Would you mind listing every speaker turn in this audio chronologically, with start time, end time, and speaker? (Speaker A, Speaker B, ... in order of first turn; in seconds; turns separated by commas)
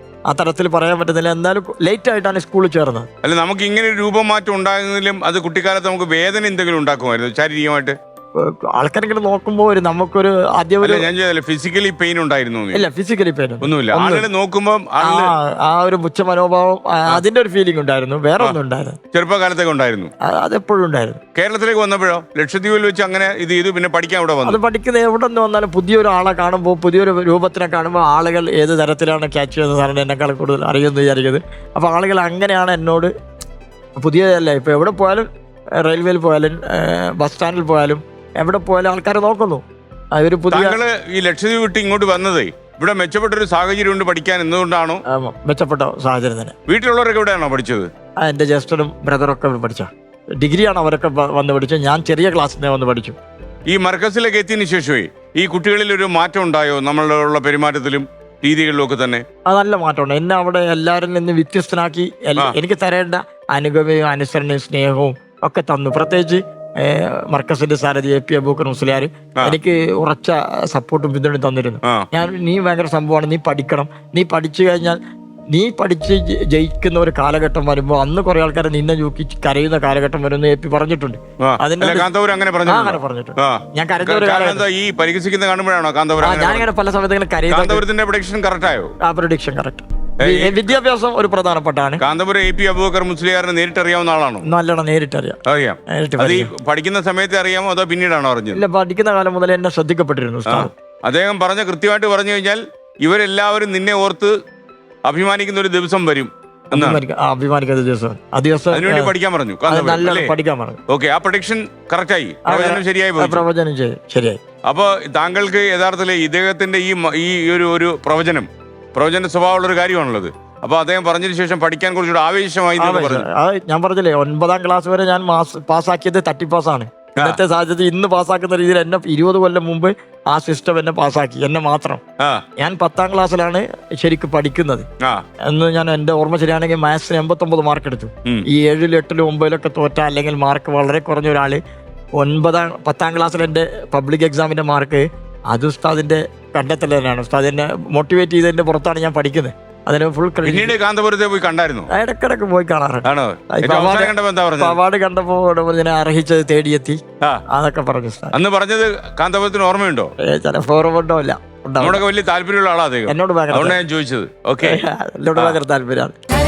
Speaker A: 0.3-3.1, Speaker B: 3.2-7.9, Speaker A: 8.4-11.1, Speaker B: 10.8-12.8, Speaker A: 12.7-14.3, Speaker B: 13.6-15.3, Speaker A: 15.0-19.0, Speaker B: 19.1-20.1, Speaker A: 20.2-21.2, Speaker B: 21.3-24.6, Speaker A: 24.4-33.1, Speaker A: 34.0-35.3, Speaker A: 35.8-39.6, Speaker A: 40.1-40.8, Speaker B: 40.5-45.0, Speaker A: 45.1-46.5, Speaker B: 46.7-47.9, Speaker A: 48.2-53.2, Speaker B: 53.7-59.2, Speaker A: 59.5-75.0, Speaker A: 75.5-82.1, Speaker B: 81.4-86.7, Speaker A: 82.7-84.7, Speaker A: 86.2-87.8, Speaker B: 87.5-88.9, Speaker A: 89.0-92.0, Speaker B: 90.2-90.7, Speaker B: 92.0-94.4, Speaker A: 94.4-95.4, Speaker B: 95.5-98.6, Speaker A: 95.9-96.5, Speaker A: 98.5-100.7, Speaker B: 100.5-104.3, Speaker B: 105.0-107.0, Speaker A: 106.7-109.1, Speaker B: 108.7-110.3, Speaker A: 109.7-110.8, Speaker B: 110.9-113.4, Speaker A: 112.5-114.4, Speaker B: 114.7-123.2, Speaker A: 122.8-132.0, Speaker A: 132.6-134.9, Speaker A: 135.5-141.6, Speaker A: 142.2-150.7, Speaker B: 150.4-151.9, Speaker A: 151.9-157.0, Speaker B: 153.0-154.8, Speaker A: 157.5-158.3, Speaker B: 158.3-160.1, Speaker A: 160.2-162.0, Speaker B: 161.8-164.8, Speaker A: 163.1-163.8, Speaker A: 164.6-166.1